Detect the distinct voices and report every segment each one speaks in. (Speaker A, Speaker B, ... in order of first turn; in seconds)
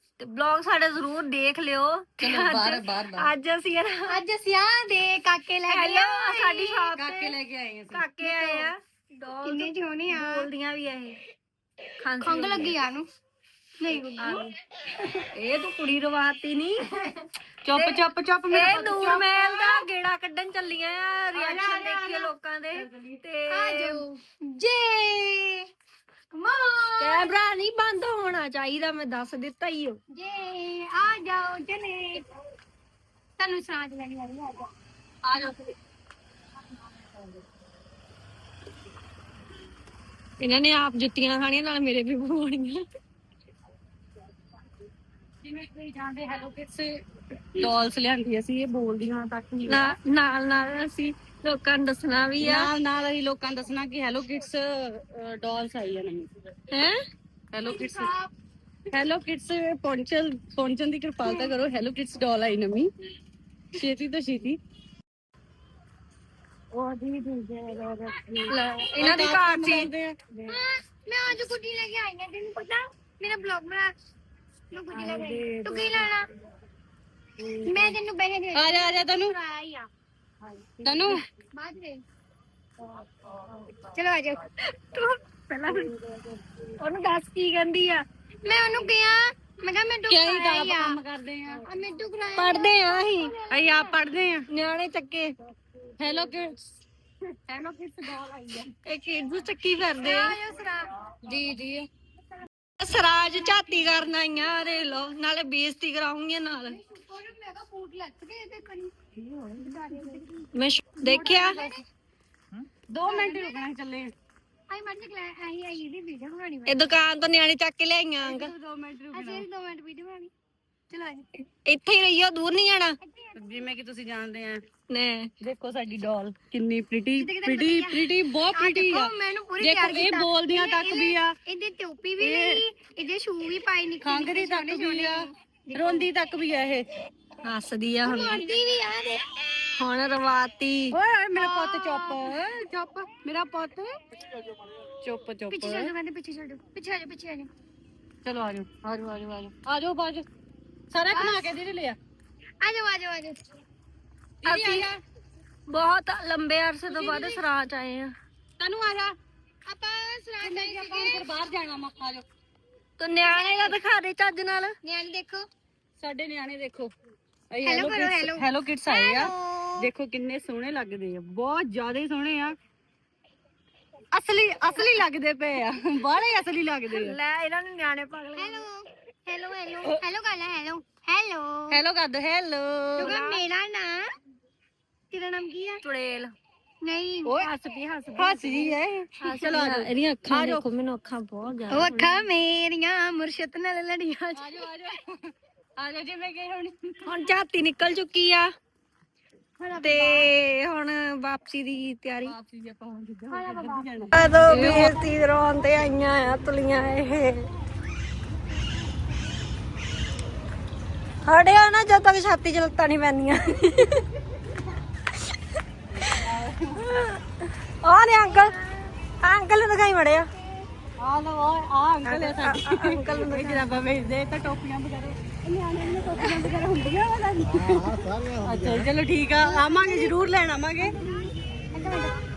Speaker A: 0.2-4.2, 5.7-7.4, 7.9-11.2, 12.0-12.8, 14.2-14.5, 15.3-16.9, 17.7-24.0, 27.0-30.0, 40.4-42.8, 49.7-52.7, 56.7-57.0, 66.7-69.9, 74.9-76.1, 80.9-81.2, 83.3-83.7, 84.7-86.0, 86.8-88.0, 92.4-93.3, 94.5-95.4, 98.8-100.4, 101.2-101.9, 102.8-106.8, 110.5-111.6, 116.7-118.5, 121.7-123.0, 124.9-125.3, 137.4-138.4, 139.8-141.0, 154.4-154.9, 155.7-158.1, 163.0-164.8, 176.9-178.7, 183.0-183.4, 185.8-186.3, 187.4-192.2, 197.1-198.5, 199.8-202.3, 204.1-207.5, 211.2-214.1, 216.9-217.2, 217.8-218.6, 219.2-220.3, 222.1-223.8
Speaker B: 2.2-3.3, 7.0-8.1, 17.6-19.9, 21.3-23.2, 35.3-35.5, 45.4-47.0, 47.5-49.9, 52.4-56.3, 57.5-58.1, 58.9-62.9, 63.8-64.6, 68.1-70.6, 77.4-78.0, 78.5-79.3, 80.8-81.2, 90.1-91.6, 93.5-94.5, 96.0-96.7, 97.5-98.7, 111.0-111.7, 112.9-114.1, 118.2-119.5, 123.3-124.6, 125.4-131.3, 132.2-132.6, 134.0-136.9, 140.9-144.0, 145.0-145.9, 148.2-150.3, 150.9-152.0, 154.4-155.0, 156.8-157.4, 158.6-159.2, 160.4-162.2, 166.0-166.9, 167.5-172.6, 174.1-177.2, 181.7-183.2, 188.2-190.6, 194.4-197.1, 202.2-205.3, 216.2-216.9, 221.0-230.9
Speaker C: 4.1-6.9, 8.2-8.7, 9.4-10.5, 12.2-13.1, 13.8-14.5, 23.5-25.7, 26.3-27.3, 30.1-32.2, 33.4-34.7, 57.7-58.3, 61.2-61.5, 70.5-73.9, 74.7-76.3, 77.7-79.9, 81.5-82.0, 83.9-84.4, 88.4-91.0, 91.6-94.0, 100.0-100.9, 106.7-108.9, 109.6-110.5, 111.1-111.8, 113.0-113.6, 114.7-117.0, 119.1-120.3, 120.9-121.3, 123.0-123.6, 127.2-136.1, 138.1-139.2, 141.4-142.3, 145.5-147.5, 151.1-151.5, 152.6-153.4, 159.7-161.3, 163.2-163.8, 164.8-165.5, 167.6-169.9, 178.4-181.8, 183.0-184.1, 185.1-185.8, 186.8-187.5, 191.7-194.6, 199.6-200.3, 203.3-204.8, 229.4-230.2, 230.8-232.2